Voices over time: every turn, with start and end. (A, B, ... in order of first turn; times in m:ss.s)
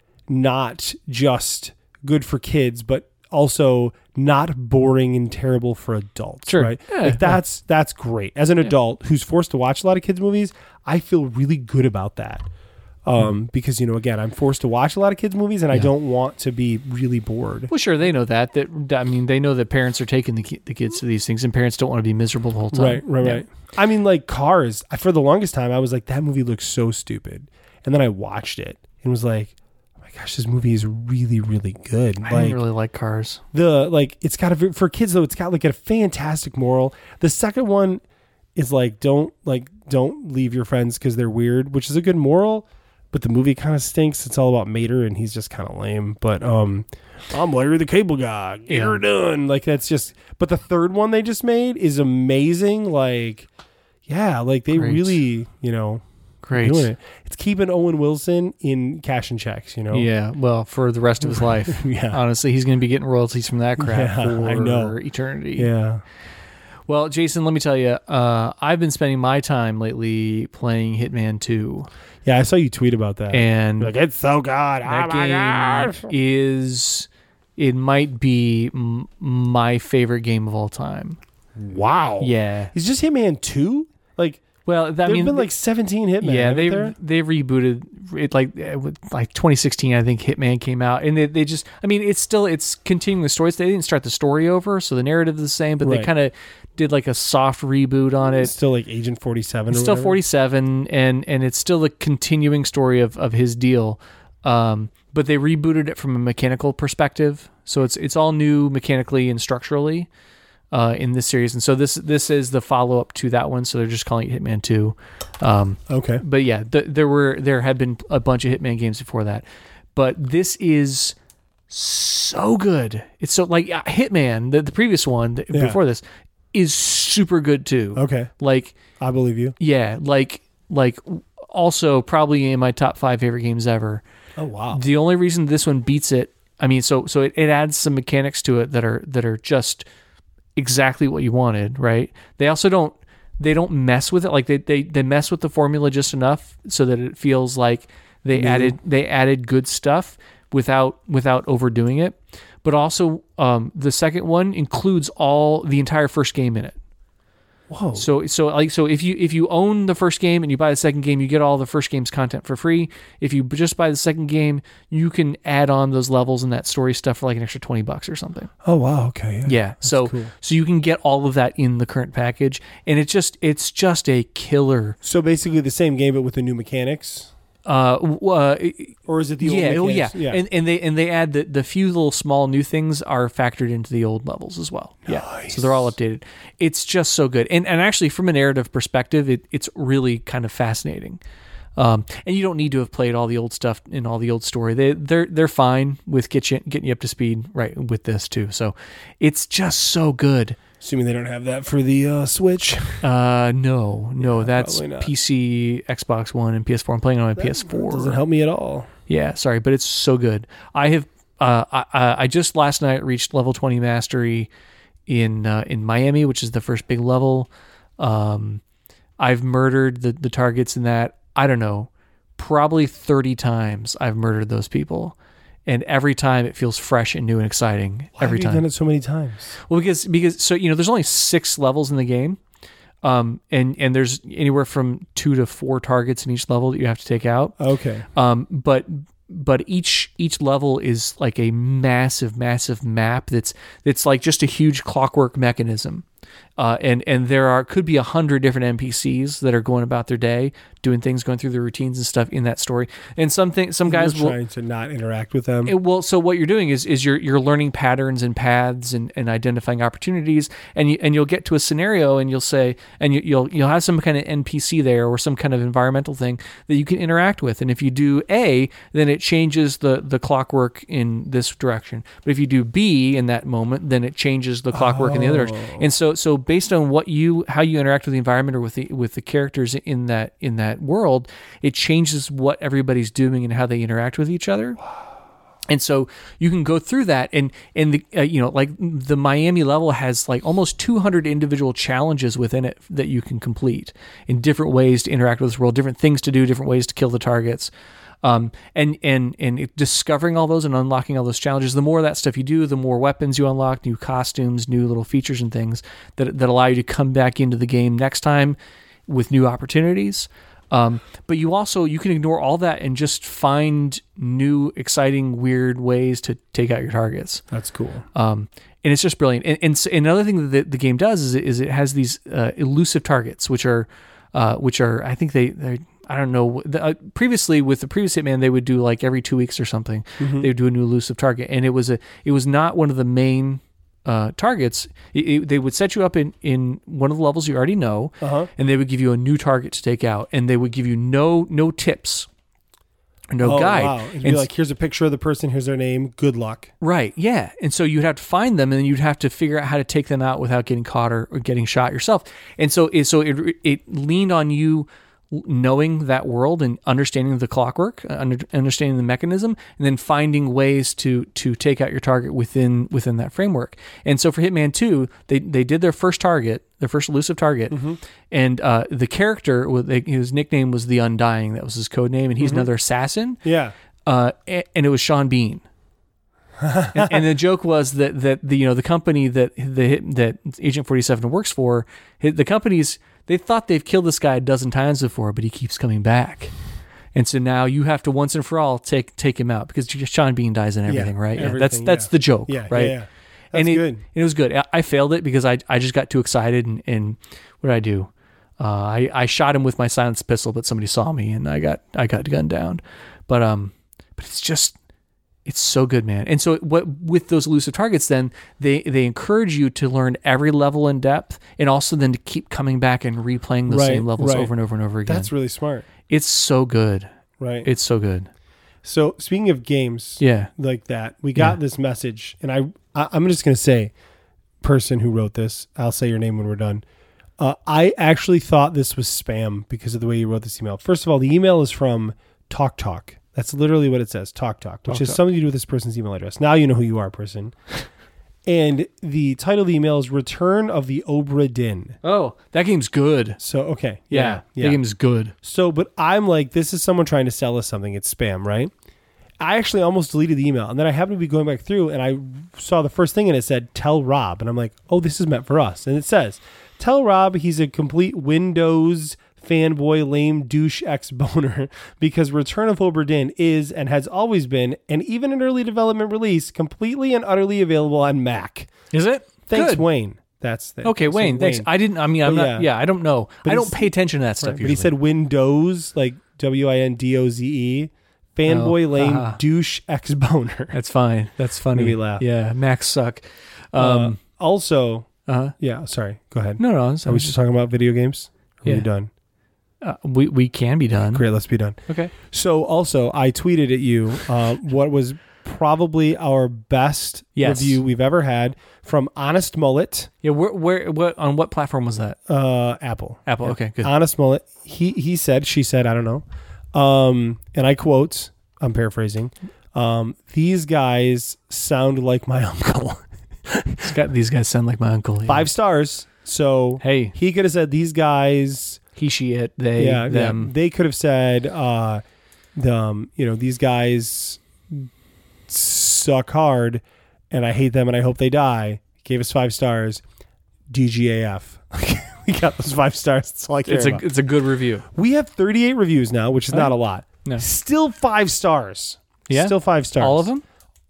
0:00.3-0:12.5 A
0:06.5-0:07.4 B
0:13.0-0:17.7 A
0:17.7-0:23.4 B
0:22.7-0:32.6 A
0:32.2-0:33.4 B
0:33.5-0:38.0 A
0:38.6-0:53.5 A
0:48.7-0:49.0 B
0:54.1-0:56.0 A
0:54.7-0:55.2 B
0:56.4-0:56.9 B
0:56.6-1:00.1 A
0:59.9-1:05.7 B
1:01.2-1:02.2 A
1:03.8-1:05.0 A
1:05.6-1:06.0 A
1:06.9-1:11.9 B
1:12.2-1:16.1 A
1:13.3-1:13.9 B
1:14.8-1:21.2 B
1:21.6-1:24.4 A
1:22.2-1:22.7 B
1:24.7-1:25.5 B
1:25.0-1:27.0 A
1:26.2-1:38.5 B
1:35.8-1:36.1 A
1:38.2-1:40.2 A
1:39.7-1:50.1 B
1:50.7-2:01.2 B
1:55.9-1:56.2 A
2:01.7-2:08.8 B
2:05.5-2:05.8 A
2:08.0-2:08.3 A
2:09.0-2:09.6 A
2:09.6-2:14.0 B
2:14.4-2:14.8 A
2:14.7-2:19.9 B
2:20.6-2:36.8 B
2:28.3-2:28.8 A
2:37.7-2:38.1 A
2:38.0-2:48.5 B
2:48.6-2:50.3 A
2:49.5-2:55.0 B
2:55.0-2:57.3 A
2:57.7-3:11.2 B
2:59.1-3:00.4 A
3:05.1-3:05.9 A
3:11.8-3:20.6 B
3:20.8-3:23.0 A
3:23.0-3:28.2 B
3:24.2-3:25.1 A
3:27.4-3:28.9 A
3:29.1-3:34.5 B
3:35.1-3:38.6 B
3:39.2-3:48.6 B
3:48.2-3:49.6 A
3:49.7-3:52.4 B
3:53.0-3:57.6 B
3:57.6-3:58.1 A
3:58.2-4:06.0 B
4:06.6-4:14.4 B
4:13.9-4:15.8 A
4:15.7-4:44.8 B
4:34.7-4:35.9 A
4:45.7-4:57.7 B
4:58.2-5:17.4 B
5:17.5-5:18.0 A
5:18.1-5:42.3 B
5:30.2-5:30.5 A
5:38.2-5:38.5 A
5:43.3-5:44.5 B
5:43.4-5:46.7 A
5:46.8-6:07.8 B
6:07.7-6:08.0 A
6:08.3-6:13.4 B
6:12.4-6:12.7 A
6:13.4-6:13.7 A
6:14.0-6:15.6 B
6:16.6-6:17.2 A
6:16.9-6:26.5 B
6:27.1-6:33.0 B
6:30.9-6:34.0 A
6:33.5-6:44.8 B
6:45.5-6:55.3 B
6:53.7-6:54.5 A
6:55.1-6:55.9 A
6:56.1-6:57.1 B
6:57.4-6:57.7 A
6:57.6-6:58.3 B
6:58.8-7:03.9 A
7:00.2-7:00.5 B
7:04.6-7:06.8 A
7:07.4-7:17.6 A
7:14.9-7:15.2 B
7:18.5-7:22.0 A
7:22.0-7:23.4 B
7:23.4-7:24.8 A
7:24.1-7:25.3 B
7:25.4-7:28.7 A
7:29.4-7:48.7 A
7:48.9-7:49.8 B
7:49.5-7:51.7 A
7:50.8-7:54.9 B
7:52.2-7:52.7 A
7:53.4-8:00.8 A
7:58.5-7:59.4 B
8:00.7-8:04.2 B
8:01.7-8:02.2 A
8:03.8-8:09.1 A
8:05.3-8:05.5 B
8:06.6-8:07.4 B
8:09.8-8:11.2 B
8:11.1-8:20.1 A
8:17.4-8:17.8 B
8:20.2-8:22.2 B
8:22.3-8:33.9 A
8:23.3-8:23.9 B
8:33.8-8:35.5 B
8:35.3-8:38.8 A
8:36.8-8:37.2 B
8:39.0-8:40.5 B
8:39.8-8:42.0 A
8:42.6-8:44.9 A
8:45.5-8:50.0 A
8:50.7-8:54.1 A
8:53.6-8:54.8 B
8:54.9-9:00.3 A
8:59.3-9:00.4 B